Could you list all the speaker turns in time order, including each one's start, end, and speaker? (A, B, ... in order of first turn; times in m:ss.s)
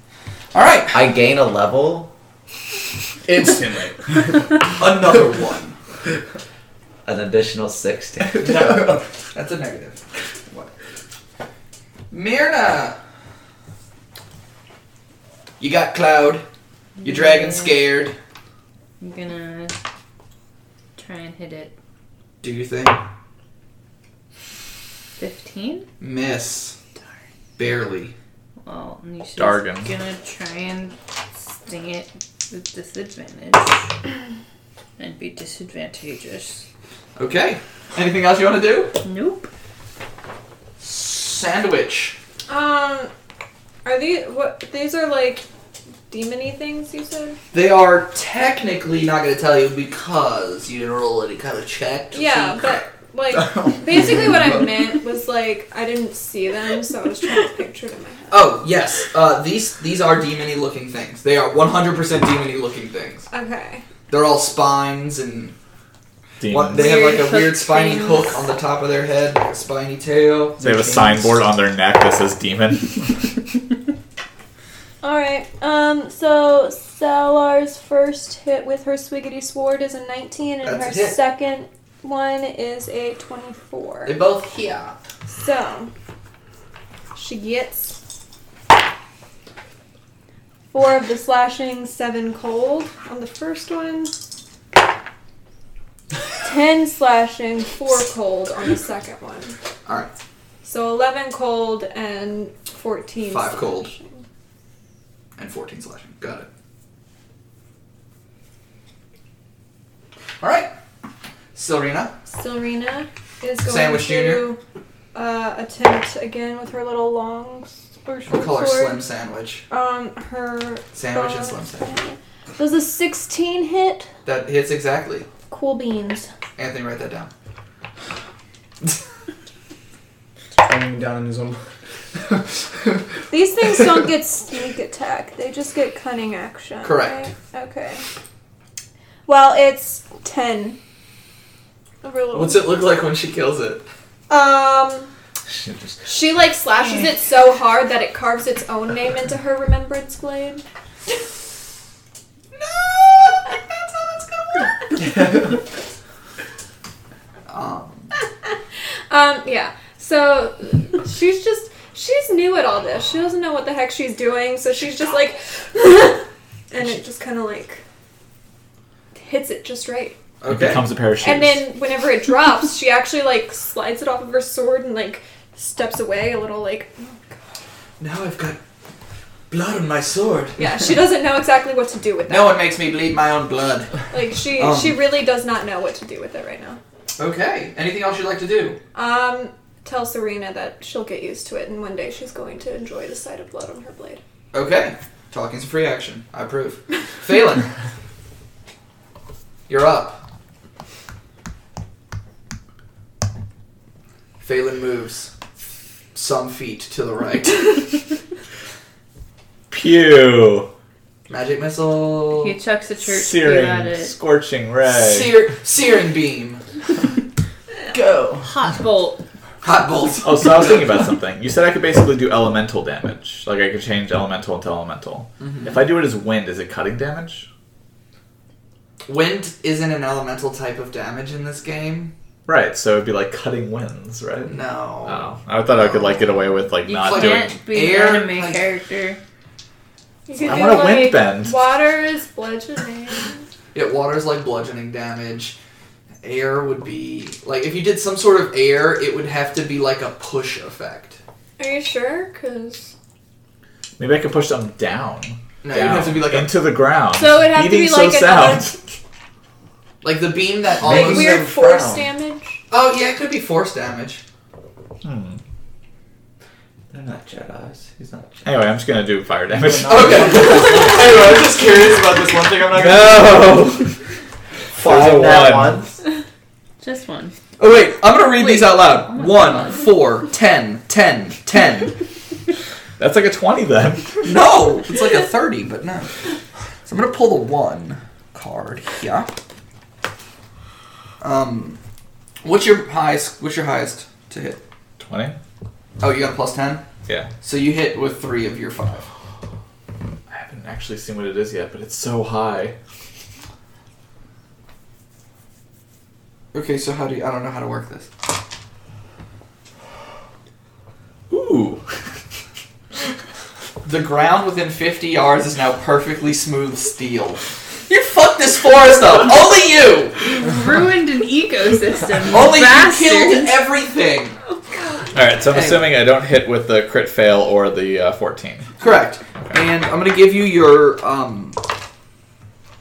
0:00.5-0:01.1 A
0:00.9-0:02.1 B
0:03.3-0:04.4 C
0:04.8-0:05.8 A
0:07.0-0:08.9 B
0:08.4-0:09.0 C
0:08.4-0:10.7 A
0:12.1-0:13.0 A
0:15.6-0:16.4 A
0:17.0-0:17.8 D
0:17.0-0:18.2 A
0:19.0-0:19.8 D
0:21.0-0:21.7 D
0:22.4-0:23.0 A
0:25.2-0:25.9 D
0:26.0-0:26.7 A
0:27.6-0:28.1 A
0:28.6-0:33.9 D
0:29.4-0:29.9 E
0:35.0-0:36.6 D
0:37.2-0:38.9 A
0:39.0-0:39.5 D
0:40.8-0:42.2 A
0:42.5-0:43.1 F
0:43.8-0:45.4 F
0:46.1-0:47.4 F
0:47.5-0:52.7 A
0:52.1-0:58.5 F
0:53.3-0:54.8 C
0:58.3-1:03.3 A
1:03.3-1:03.8 F
1:04.1-1:05.5 A
1:06.4-1:07.0 E
1:06.5-1:10.6 A
1:06.7-1:08.4 D
1:10.6-1:11.4 C
1:10.6-1:13.2 E
1:15.0-1:24.2 F
1:20.6-1:21.2 A
1:24.0-1:25.0 A
1:25.3-1:25.9 F
1:27.1-1:28.0 F
1:30.7-1:34.2 F
1:36.4-1:39.6 F
1:40.6-1:44.2 F
1:43.3-1:43.9 A
1:45.4-1:46.5 A
1:50.4-1:50.7 A
1:51.5-1:52.1 A
1:52.3-1:54.6 F
1:53.6-1:54.5 A
1:55.1-1:59.0 F
1:58.3-1:59.6 A
1:59.7-2:04.1 F
2:00.9-2:02.0 A
2:04.2-2:05.3 A
2:05.5-2:06.3 F
2:06.6-2:07.3 A
2:10.6-2:11.6 C
2:12.3-2:13.0 C
2:13.3-2:18.0 F
2:16.8-2:17.3 A
2:19.2-2:20.8 F
2:22.0-2:22.7 F
2:22.3-2:23.8 A
2:24.3-2:25.1 F
2:25.5-2:26.0 B
2:26.0-2:30.6 F
2:32.5-2:34.7 A
2:37.5-2:38.1 A
2:39.1-2:47.8 F
2:49.2-2:50.2 F
2:50.4-2:50.8 A
2:50.5-2:51.7 E
2:51.2-2:57.3 F
2:58.0-2:58.6 A
2:59.5-3:00.6 A
3:00.6-3:02.6 F
3:02.3-3:05.0 A
3:04.1-3:06.8 F
3:07.2-3:08.8 A
3:08.9-3:14.2 F
3:14.5-3:17.7 A
3:19.7-3:20.2 A
3:24.4-3:25.3 A
3:26.1-3:28.0 A
3:29.7-3:30.7 E
3:31.3-3:32.5 A
3:32.3-3:34.1 D
3:33.0-3:35.4 E
3:34.8-3:36.6 A
3:37.9-3:38.5 C
3:38.4-3:39.2 D
3:39.6-3:41.0 A
3:40.2-3:47.5 E
3:45.4-3:45.7 A
3:49.0-3:52.1 A
3:52.4-3:57.6 E
3:54.5-3:56.2 A
3:56.8-3:59.2 D
3:57.0-3:58.6 A
4:00.3-4:03.4 F
4:00.4-4:01.7 E
4:03.7-4:05.6 A
4:06.2-4:11.2 A
4:11.6-4:12.9 F
4:14.0-4:18.8 E
4:15.6-4:16.5 A
4:17.1-4:18.7 F
4:20.0-4:21.5 A
4:20.8-4:22.6 F
4:21.1-4:21.8 B
4:22.7-4:24.2 A
4:25.0-4:25.4 E
4:26.9-4:28.4 B
4:28.4-4:30.7 E
4:29.5-4:31.3 C
4:29.9-4:33.4 A
4:32.7-4:33.9 E
4:34.7-4:35.8 E
4:34.8-4:36.0 B
4:36.8-4:37.3 D
4:37.6-4:42.0 A
4:38.4-4:39.8 D
4:43.0-4:44.3 E
4:44.2-4:46.1 A
4:46.8-4:49.3 A
4:51.2-4:51.8 A
4:52.4-4:54.6 A
4:55.0-4:55.4 E
4:56.0-4:56.8 A
4:57.4-4:59.1 A
5:00.3-5:02.8 E
5:06.5-5:08.1 A
5:11.3-5:11.8 E
5:13.8-5:20.2 A
5:20.2-5:23.6 D
5:22.3-5:24.3 A
5:24.7-5:25.1 F
5:25.1-5:28.8 E
5:25.5-5:25.9 A
5:28.8-5:31.6 A